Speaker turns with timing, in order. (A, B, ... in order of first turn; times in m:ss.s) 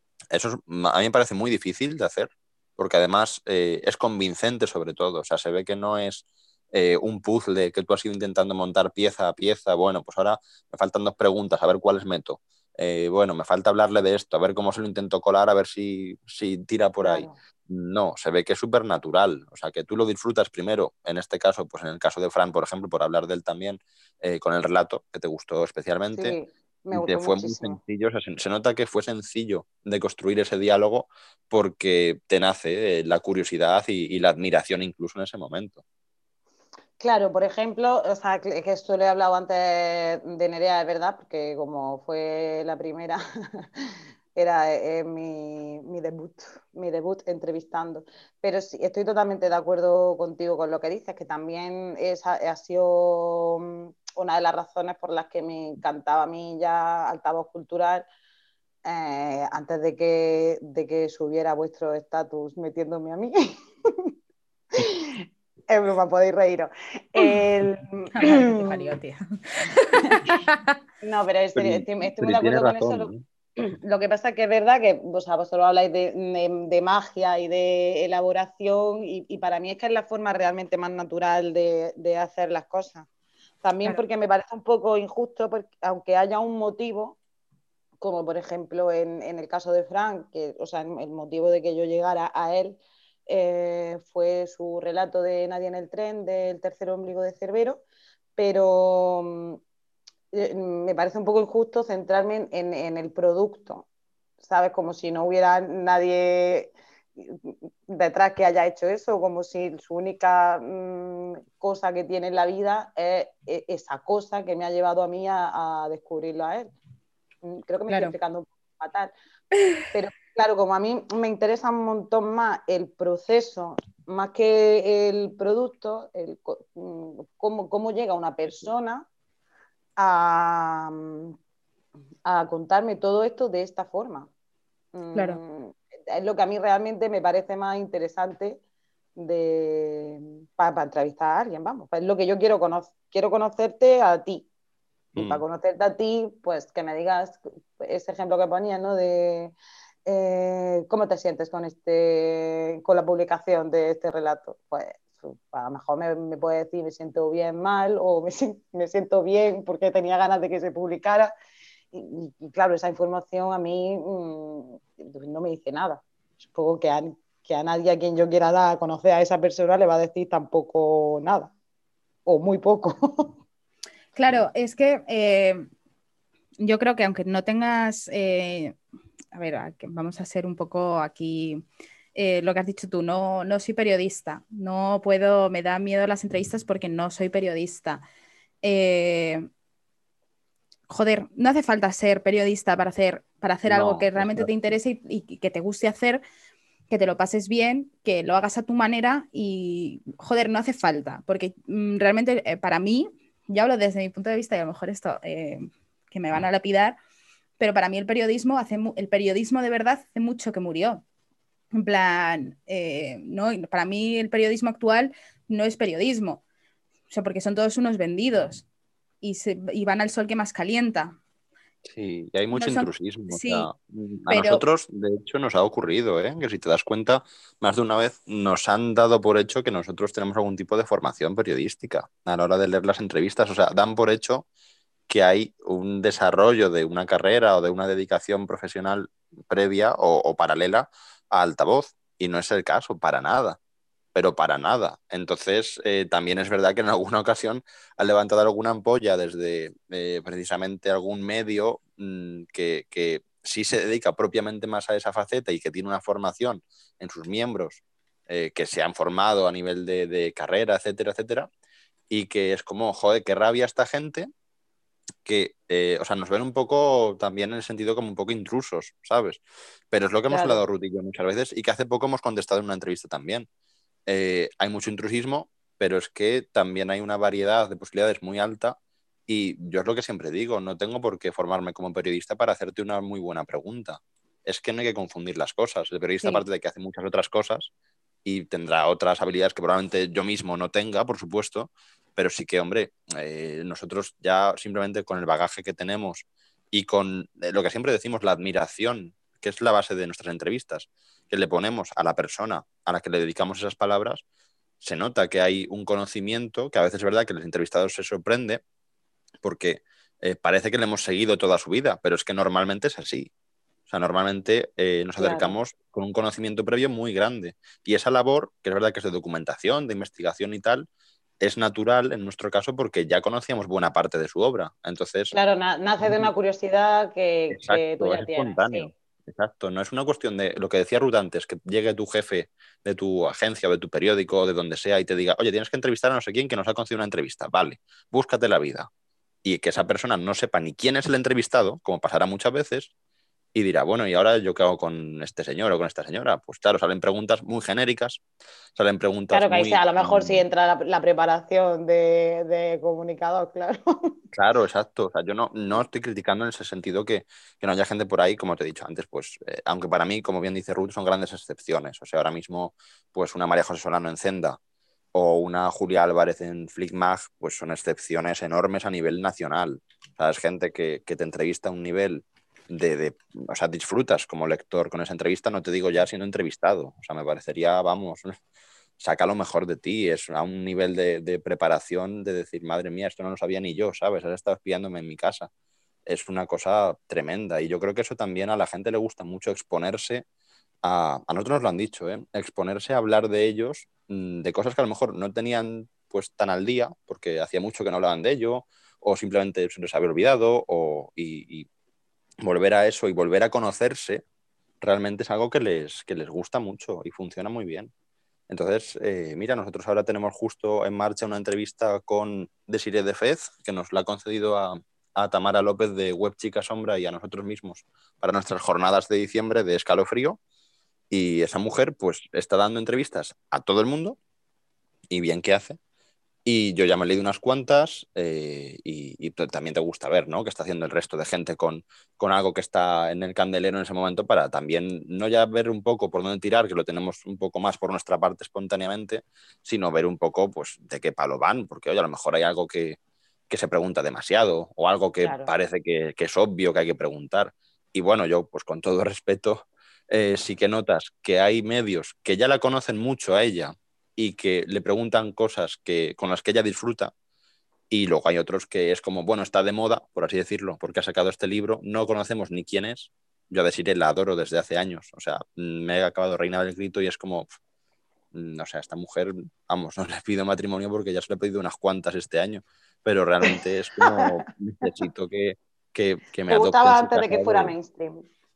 0:00.3-0:26.4 A
0:17.0-0:17.3 B
0:26.1-0:27.8 B
0:26.9-0:35.8 A
0:37.0-0:58.1 B
0:58.8-1:04.1 B
1:04.8-1:09.0 B
1:08.2-1:10.7 C
1:11.0-1:23.1 B
1:11.6-1:13.2 A
1:23.6-1:27.2 B
1:28.0-1:37.8 B
1:38.4-1:39.6 B
1:40.3-1:43.8 B
1:44.4-1:56.7 B
1:57.4-1:59.1 B
1:57.9-1:58.1 C
1:59.9-2:09.1 B
2:10.0-2:11.3 B
2:12.2-2:14.3 B
2:14.9-2:18.6 B
2:15.1-2:15.4 C
2:19.2-2:24.5 B
2:25.2-2:25.4 A
2:25.2-2:41.3 B
2:41.9-2:51.5 B
2:52.2-2:53.4 B
2:54.2-2:55.6 C
2:56.6-2:58.8 C
2:59.3-3:01.6 C
3:02.1-3:08.0 C
3:08.6-3:09.4 C
3:10.9-3:16.2 C
3:13.6-3:14.7 A
3:16.9-3:27.0 C
3:27.6-3:31.0 C
3:31.7-3:36.4 C
3:37.1-3:38.6 C
3:39.2-3:41.2 C
3:41.8-3:54.5 A
3:42.5-3:43.7 C
3:44.3-3:44.6 C
3:55.1-4:03.6 A
4:04.1-4:21.5 A
4:22.1-4:24.3 A
4:25.2-4:33.5 A
4:30.3-4:30.6 B
4:34.1-4:47.7 A
4:48.2-5:04.2 A
5:04.8-5:08.6 A
5:09.4-5:13.3 A
5:13.9-5:20.9 A
5:15.2-5:15.5 B
5:21.4-5:25.3 A
5:25.3-5:28.9 B
5:26.0-5:26.3 A
5:27.5-5:38.9 A
5:39.4-5:42.9 A
5:43.5-5:48.2 A
5:48.7-5:50.4 A
5:49.3-5:54.2 B
5:54.3-6:04.6 A
6:05.1-6:18.4 A
6:19.0-6:25.5 A
6:26.0-6:30.2 A
6:30.8-6:41.7 A
6:42.4-6:44.2 A
6:44.8-6:47.9 A
6:48.5-7:00.4 A
7:01.1-7:04.2 A
7:05.1-7:05.8 A
7:06.4-7:23.0 A
7:23.5-7:37.1 A
7:25.2-7:25.5 B
7:37.9-7:47.5 A
7:48.3-7:57.7 A
7:56.5-7:58.2 B